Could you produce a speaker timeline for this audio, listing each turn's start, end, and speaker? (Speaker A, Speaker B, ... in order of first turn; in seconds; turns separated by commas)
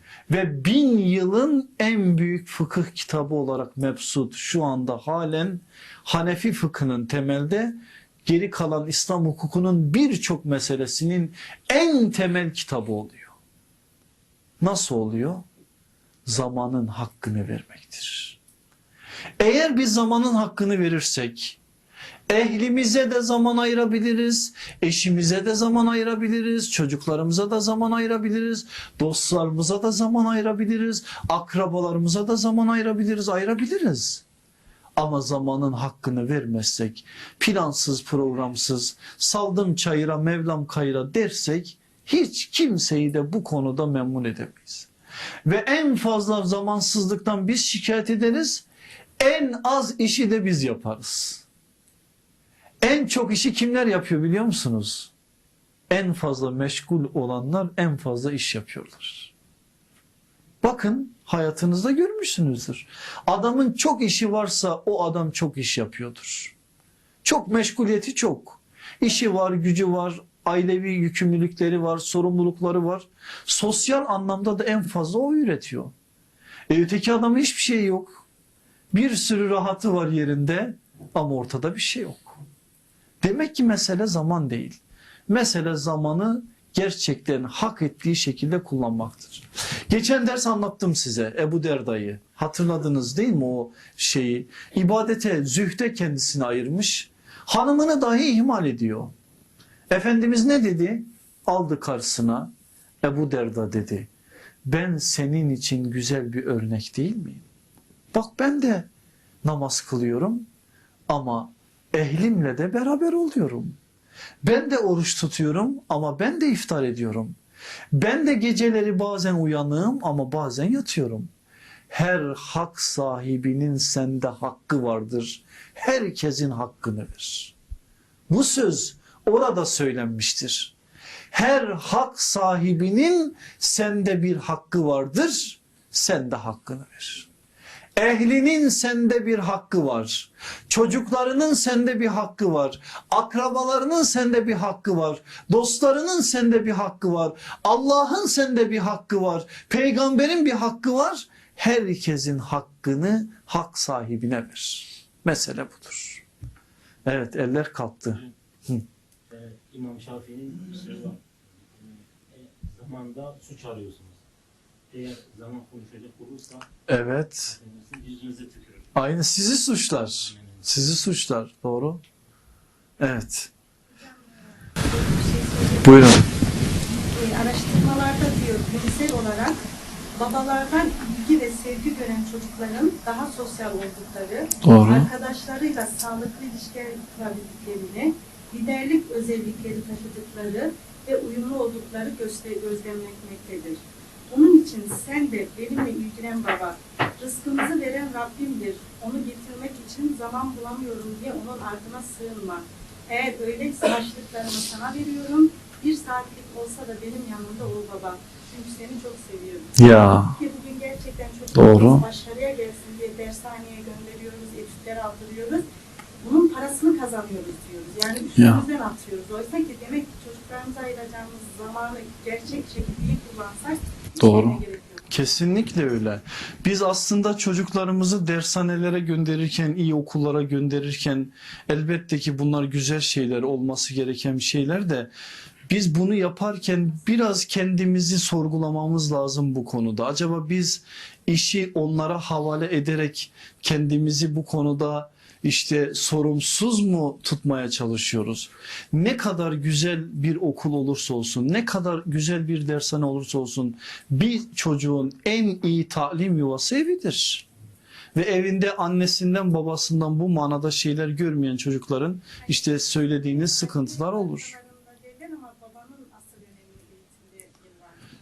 Speaker A: 0.3-13.3, Speaker A: 14.6-15.4, Speaker A: 16.2-18.4, Speaker A: 19.4-21.6, Speaker A: 22.3-34.2, Speaker A: 35.0-44.9, Speaker A: 45.5-48.6, Speaker A: 49.2-51.4, Speaker A: 52.8-55.1, Speaker A: 55.9-59.3, Speaker A: 60.6-66.5, Speaker A: 67.2-75.9, Speaker A: 76.7-78.2, Speaker A: 78.9-82.4, Speaker A: 83.2-99.1, Speaker A: 99.9-102.5, Speaker A: 103.0-104.1, Speaker A: 104.6-107.4, Speaker A: 108.1-108.9, Speaker A: 109.4-110.5, Speaker A: 111.1-113.8, Speaker A: 114.4-117.4, Speaker A: 117.9-121.3, Speaker A: 121.9-127.5, Speaker A: 128.3-130.7, Speaker A: 131.3-137.3, Speaker A: 137.9-156.2, Speaker A: 157.1-158.8, Speaker B: 159.3-161.2, Speaker B: 161.8-164.2, Speaker B: 164.9-166.7, Speaker A: 166.9-167.6, Speaker B: 167.5-168.8, Speaker A: 168.9-172.0, Speaker B: 170.3-170.6, Speaker A: 173.0-173.5, Speaker C: 174.0-176.2, Speaker A: 175.8-176.2, Speaker C: 177.1-179.6, Speaker C: 180.1-215.6, Speaker A: 184.6-185.1, Speaker A: 209.8-210.4, Speaker A: 211.5-212.0, Speaker C: 216.2-225.1, Speaker A: 218.3-218.6, Speaker A: 224.2-235.1, Speaker A: 235.7-257.4, Speaker A: 258.1-264.5, Speaker C: 262.4-268.0